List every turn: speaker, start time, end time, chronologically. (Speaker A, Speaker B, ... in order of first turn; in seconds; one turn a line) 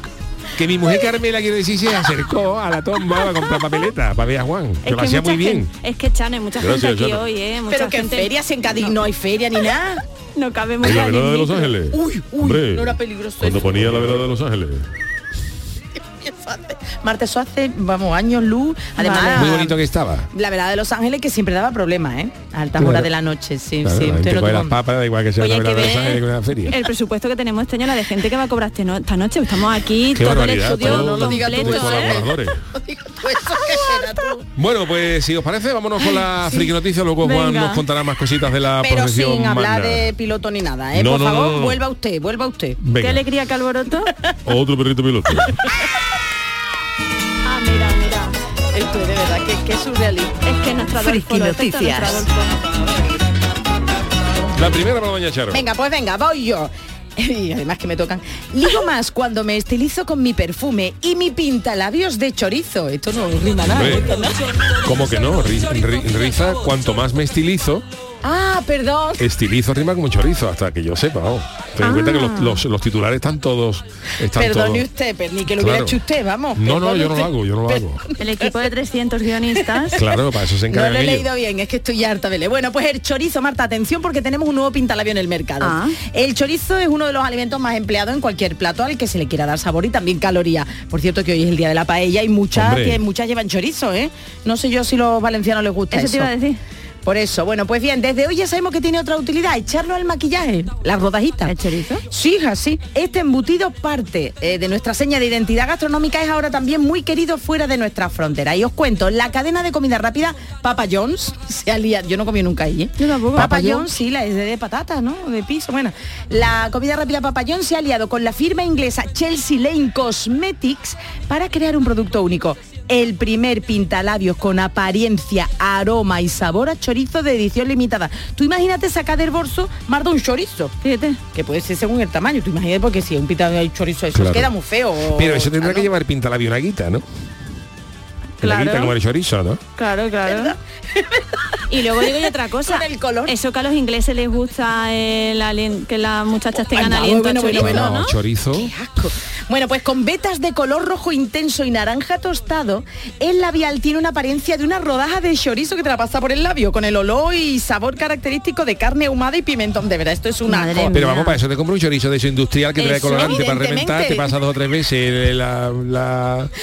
Speaker A: 0.6-5.7
Speaker B: 4.8-8.9
Speaker C: 6.6-7.1
Speaker D: 7.7-10.0
Speaker B: 10.4-11.8
Speaker C: 10.8-14.7
Speaker A: 11.0-11.7
Speaker D: 11.8-14.0
Speaker A: 13.7-14.3
Speaker D: 16.1-19.8
Speaker B: 19.0-19.6
Speaker A: 19.3-20.3
Speaker D: 20.3-24.7
Speaker A: 22.8-23.1
Speaker A: 23.8-26.8
Speaker B: 25.4-32.2
Speaker A: 30.1-32.6
Speaker D: 30.8-34.5
Speaker A: 34.5-40.1
Speaker B: 37.2-37.8
Speaker D: 38.8-42.8
Speaker A: 41.0-41.8
Speaker A: 42.8-43.2
Speaker B: 43.0-44.1
Speaker C: 44.5-45.4
Speaker A: 44.5-45.4
Speaker B: 47.5-48.4
Speaker D: 48.7-50.4
Speaker B: 50.4-52.5
Speaker D: 51.6-52.2
Speaker A: 54.5-55.6
Speaker D: 55.5-64.4
Speaker A: 63.7-64.1
Speaker A: 64.8-67.9
Speaker D: 68.2-69.2
Speaker A: 69.2-74.9
Speaker B: 71.8-72.6
Speaker D: 74.3-78.6
Speaker A: 75.5-76.0
Speaker A: 76.6-78.0
Speaker B: 78.2-80.1
Speaker A: 79.9-81.3
Speaker D: 80.7-96.3
Speaker B: 85.6-86.0
Speaker A: 92.5-93.0
Speaker B: 95.9-96.6
Speaker D: 97.0-101.5
Speaker B: 101.5-102.0
Speaker D: 102.1-130.7
Speaker B: 113.0-113.9
Speaker B: 130.8-131.2
Speaker D: 131.3-135.9
Speaker A: 134.1-134.5
Speaker A: 135.1-137.0
Speaker B: 138.4-138.9
Speaker A: 138.4-139.6
Speaker B: 139.8-140.6
Speaker D: 140.2-141.3
Speaker B: 141.7-148.2
Speaker D: 141.9-143.3
Speaker D: 146.7-160.9
Speaker A: 147.5-148.7
Speaker B: 160.5-161.4
Speaker A: 160.9-166.5
Speaker D: 162.8-164.3
Speaker B: 162.9-163.4